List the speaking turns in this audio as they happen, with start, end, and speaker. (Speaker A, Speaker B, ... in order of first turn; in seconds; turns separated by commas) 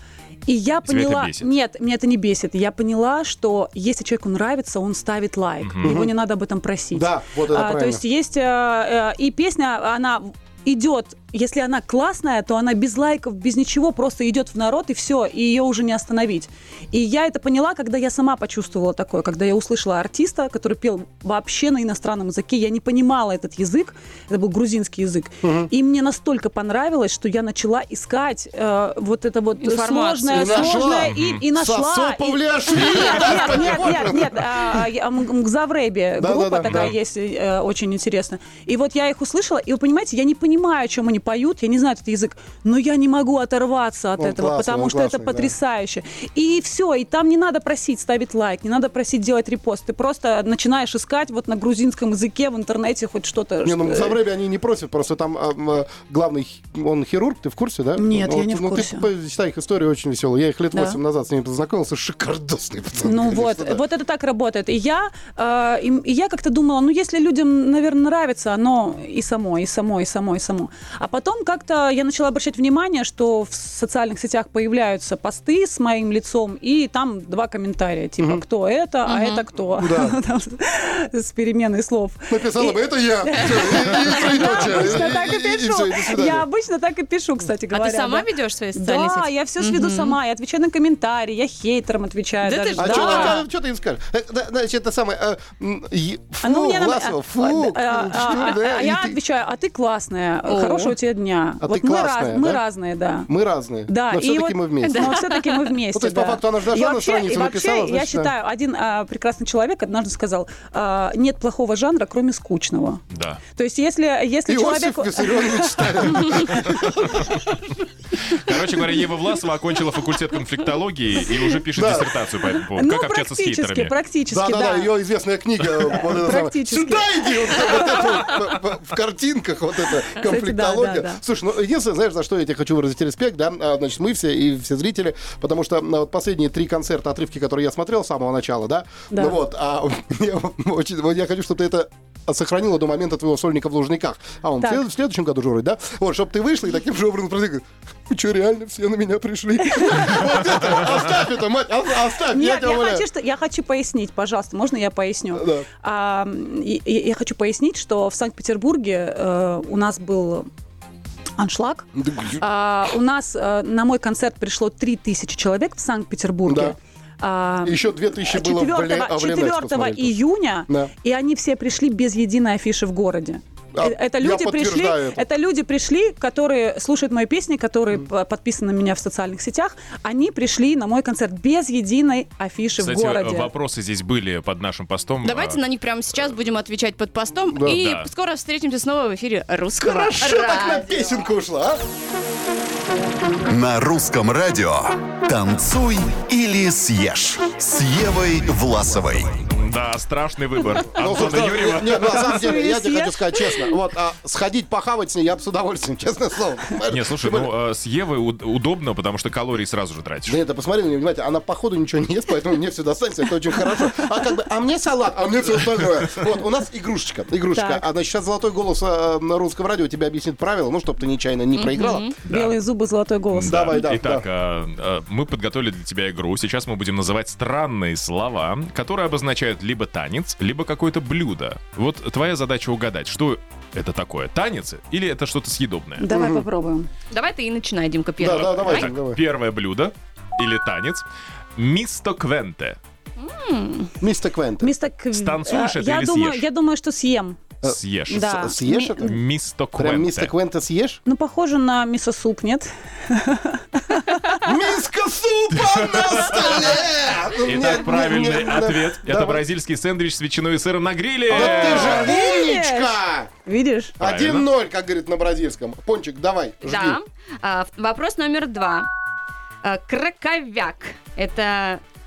Speaker A: 0.5-54.2, Speaker B: 0.8-1.5, Speaker B: 5.6-5.9, Speaker C: 5.8-6.1, Speaker C: 6.9-8.0, Speaker C: 25.4-25.7, Speaker D: 29.6-30.9, Speaker C: 30.3-34.5, Speaker B: 31.0-31.4, Speaker C: 36.2-36.9, Speaker B: 36.7-36.9, Speaker C: 44.2-45.5, Speaker C: 53.6-63.8, Speaker A: 58.0-59.1, Speaker A: 60.7-61.0, Speaker A: 63.0-93.4, Speaker D: 79.0-79.4, Speaker C: 79.8-80.2, Speaker C: 82.3-86.4, Speaker D: 87.7-90.2, Speaker D: 92.4-93.4, Speaker C: 92.8-99.2, Speaker A: 96.4-103.3, Speaker D: 100.5-100.9, Speaker C: 101.6-102.6, Speaker C: 103.2-105.2, Speaker A: 103.9-113.0, Speaker D: 104.8-105.7, Speaker C: 105.9-108.3, Speaker B: 113.1-113.4, Speaker A: 113.5-117.0, Speaker C: 114.5-117.3, Speaker B: 118.3-123.9, Speaker C: 121.7-122.1, Speaker A: 122.7-124.9, Speaker C: 124.3-153.0, Speaker A: 125.9-128.0, Speaker A: 130.2-131.2, Speaker A: 139.1-139.4, Speaker A: 144.6-144.8, Speaker A: 149.8-150.1, Speaker A: 152.3-160.5, Speaker C: 155.3-155.7, Speaker A: 161.4-161.9, Speaker C: 161.9-162.4, Speaker A: 162.4-183.5, Speaker C: 166.4-166.8, Speaker C: 167.6-170.2, Speaker C: 173.7-175.2, Speaker B: 182.8-185.6, Speaker D: 185.2-191.1, Speaker B: 187.6-188.1, Speaker C: 189.8-191.8, Speaker E: 193.4-199.4, Speaker B: 199.5-202.3, Speaker C: 200.9-207.5, Speaker A: 201.9-203.7, Speaker B: 206.9-210.4, Speaker C: 210.2-222.1, Speaker A: 217.5-217.8, Speaker D: 221.5-222.1, Speaker A: 222.2-223.8, Speaker B: 222.3-222.5, Speaker B: 223.3-236.1, Speaker C: 223.5-224.2, Speaker A: 236.0-236.9, Speaker C: 236.1-236.4, Speaker D: 237.1-238.9, Speaker C: 238.2-239.2, Speaker B: 238.3-242.8, Speaker D: 243.2-243.9, Speaker C: 244.0-244.7, Speaker A: 244.6-247.4, Speaker B: 245.1-246.4, Speaker C: 247.6-249.2, Speaker B: 247.6-248.2, Speaker A: 248.1-249.2, Speaker B: 249.0-250.3, Speaker C: 249.8-251.0, Speaker A: 251.0-254.4, Speaker C: 254.4-259.4, Speaker B: 255.7-256.5, Speaker B: 257.4-262.0, Speaker C: 261.3-263.3, Speaker A: 261.3-263.9, Speaker C: 264.0-267.0, Speaker B: 264.0-264.5, Speaker D: 266.6-268.9, Speaker D: 269.6-271.8